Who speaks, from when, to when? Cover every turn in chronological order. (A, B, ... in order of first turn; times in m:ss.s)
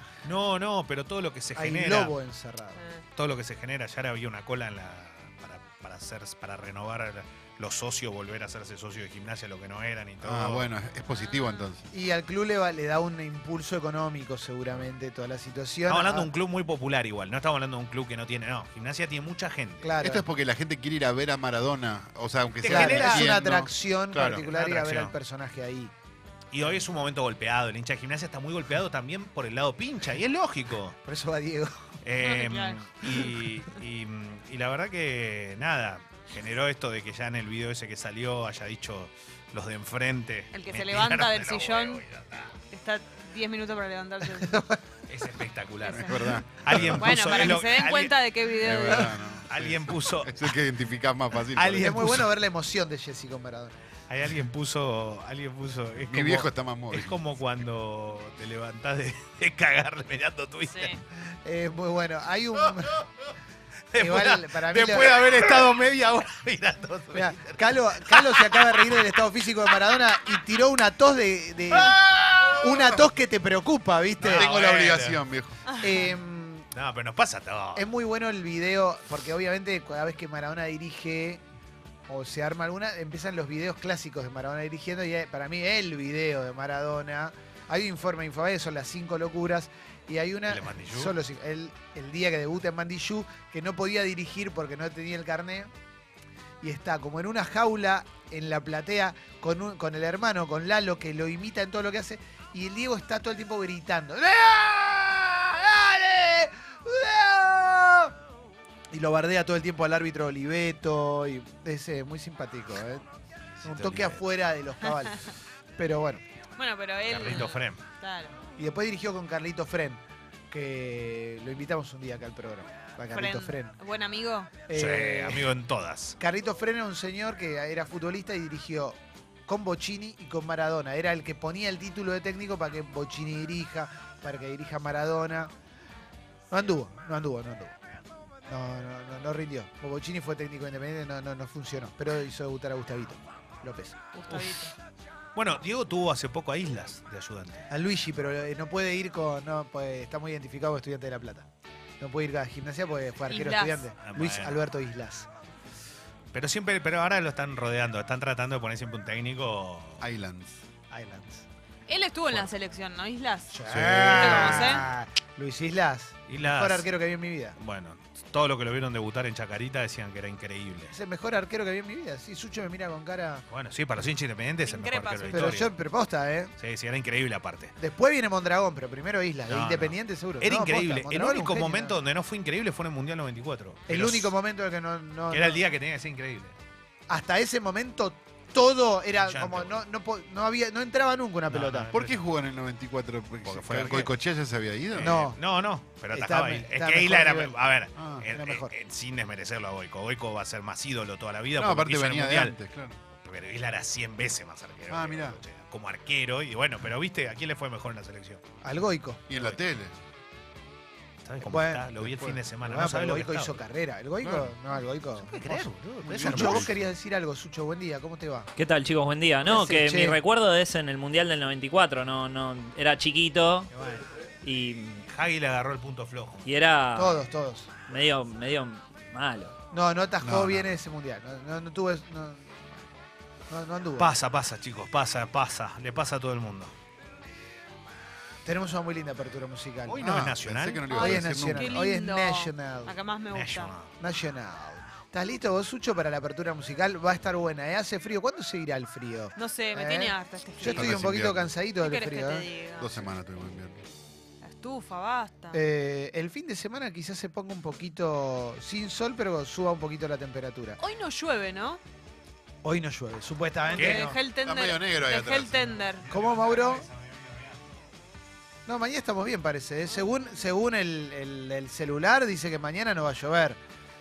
0:00.2-0:02.2 A
0:01.6-0:02.8 B
0:02.8-0:03.0 C
0:03.2-0:10.7 A
0:10.2-0:11.9 D
0:11.9-0:16.3 B
0:15.9-0:20.0 A
0:19.8-0:20.3 B
0:20.0-0:24.5 D
0:22.6-0:25.9 B
0:22.6-0:23.3 A
0:24.3-0:25.1 A
0:26.5-0:31.0 A
0:31.0-0:31.9 B
0:32.0-0:42.5 A
0:32.2-0:32.8 C
0:40.5-0:42.1 C
0:42.7-0:44.6 C
0:44.2-0:44.8 B
0:45.1-0:48.1 A
0:45.8-0:47.2 D
0:47.0-0:49.2 C
0:48.6-0:52.1 D
0:49.4-0:50.5 A
0:51.6-0:52.3 A
0:51.6-0:53.8 B
0:54.1-1:01.0 A
0:56.0-0:57.2 D
1:00.7-1:01.0 C
1:01.4-1:03.0 B
1:03.9-1:09.1 A
1:04.0-1:05.2 B
1:07.1-1:12.0 B
1:11.7-1:12.7 A
1:12.6-1:14.5 B
1:14.2-1:15.2 A
1:14.2-1:15.6 D
1:15.7-1:16.1 C
1:15.7-1:16.7 B
1:16.7-1:17.9 A
1:17.8-1:21.4 B
1:22.1-1:35.7 B
1:30.5-1:31.2 A
1:36.6-1:48.2 B
1:48.9-1:53.0 B
1:53.6-1:54.2 A
1:53.6-1:56.2 B
1:56.6-1:58.4 C
1:57.1-1:57.8 A
1:58.6-2:03.8 B
2:03.1-2:04.6 C
2:04.7-2:05.5 B
2:04.7-2:06.2 A
2:06.2-2:15.5 B
2:16.5-2:17.8 B
2:18.5-2:24.0 B
2:24.1-2:24.8 C
2:24.3-2:24.7 A
2:25.4-2:27.6 A
2:27.7-2:31.5 B
2:32.0-2:35.3 B
2:33.3-2:33.9 C
2:34.0-2:34.7 A
2:36.3-2:40.1 A
2:40.0-2:40.6 D
2:41.0-2:41.4 B
2:41.9-2:43.6 C
2:43.5-2:47.6 B
2:43.6-2:44.9 D
2:43.7-2:44.6 A
2:44.1-2:44.9 C
2:46.3-2:46.9 A
2:47.6-2:51.0 A
2:50.9-2:53.4 B
2:53.5-2:55.7 A
2:54.6-2:55.7 C
2:55.3-2:56.5 B
2:56.6-2:57.7 A
2:57.8-3:02.0 B
2:59.5-3:04.3 A
3:03.9-3:05.6 B
3:05.3-3:06.6 A
3:07.1-3:12.0 B
3:09.2-3:09.8 A
3:11.5-3:12.3 A
3:11.9-3:15.3 D
3:13.4-3:14.2 A
3:14.9-3:22.6 A
3:15.0-3:15.4 B
3:16.1-3:17.6 B
3:18.0-3:18.2 D
3:18.2-3:18.7 B
3:21.6-3:23.0 D
3:23.2-3:28.4 A
3:24.9-3:25.4 D
3:28.6-3:29.2 B
3:29.3-3:30.0 D
3:29.3-3:29.6 A
3:31.2-3:33.6 A
3:31.4-3:38.5 B
3:32.0-3:32.4 D
3:34.3-3:36.8 A
3:36.0-3:36.8 D
3:38.6-3:43.7 E
3:39.5-3:40.2 B
3:43.8-3:44.0 B
3:44.4-3:45.0 E
3:45.1-3:46.5 A
3:46.4-3:47.3 E
3:47.0-3:47.7 B
3:47.9-3:49.6 E
3:49.7-3:52.7 B
3:50.2-3:50.7 D
3:53.5-3:54.2 B
3:54.0-3:56.7 A
3:58.4-4:00.4 B
3:59.9-4:00.9 A
4:00.0-4:01.8 D
4:00.9-4:03.7 C
4:00.9-4:03.0 B
4:03.3-4:03.9 A
4:04.0-4:12.5 B
4:09.4-4:11.0 C
4:10.7-4:11.6 D
4:11.8-4:13.0 C
4:12.8-4:13.8 D
4:14.4-4:15.6 C
4:15.5-4:20.8 B
4:20.8-4:21.8 C
4:22.6-4:24.2 B
4:23.7-4:26.1 C
4:23.7-4:24.1 A
4:24.2-4:25.8 D
4:25.8-4:27.6 A
4:26.1-4:26.9 B
4:28.7-4:33.6 B